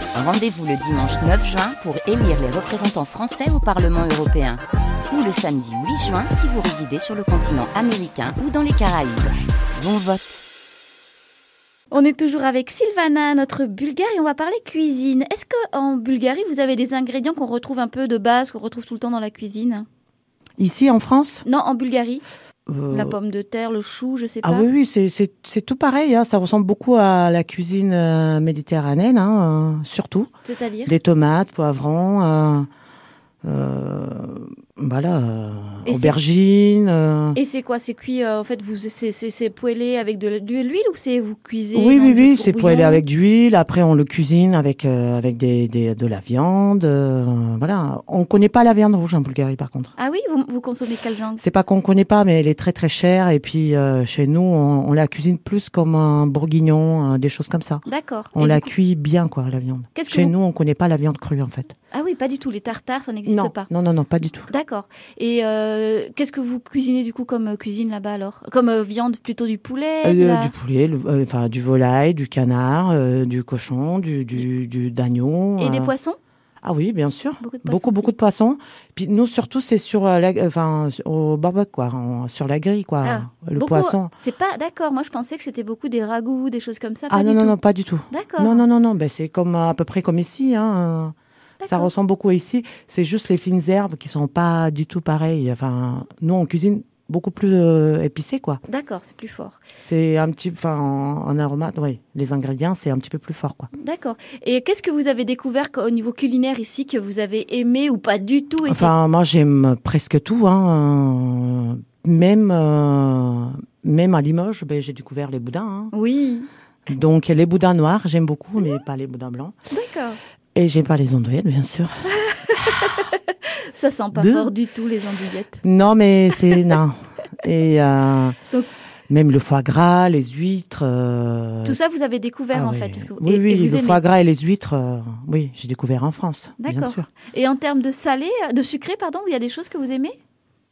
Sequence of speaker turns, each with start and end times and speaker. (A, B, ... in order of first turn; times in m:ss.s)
0:00.1-0:10.4 A
0:11.9-0:19.8 B
0:20.6-0:21.4 C
0:21.4-0:22.2 B
0:22.7-0:23.2 C
0:22.9-0:24.7 B
0:24.4-0:30.3 C
0:30.4-0:30.9 B
0:30.8-0:32.7 C
0:33.4-0:37.4 C
0:35.8-0:36.2 B
0:37.3-0:43.0 B
0:41.7-0:49.9 C
0:50.0-0:51.4 B
0:51.4-0:57.8 C
0:57.8-0:58.7 B
0:58.3-1:01.7 C
0:59.9-1:00.3 B
1:01.9-1:03.7 B
1:03.2-1:04.5 C
1:04.5-1:10.5 B
1:10.0-1:15.9 C
1:15.6-1:16.2 B
1:16.6-1:24.1 C
1:17.4-1:18.1 B
1:23.0-1:27.6 B
1:27.1-1:31.1 C
1:28.1-1:28.6 B
1:31.6-1:31.9 B
1:31.7-1:38.6 C
1:38.7-1:39.6 B
1:39.8-1:43.7 C
1:43.8-1:48.9 B
1:48.6-1:55.9 C
1:55.9-1:56.5 B
1:56.9-1:59.6 C
1:59.7-2:00.2 B
2:00.5-2:02.0 C
2:02.1-2:05.6 B
2:04.1-2:04.5 C
2:05.6-2:08.4 C
2:06.3-2:06.8 B
2:09.1-2:11.8 C
2:11.6-2:14.0 B
2:12.5-2:17.0 C
2:16.6-2:20.2 B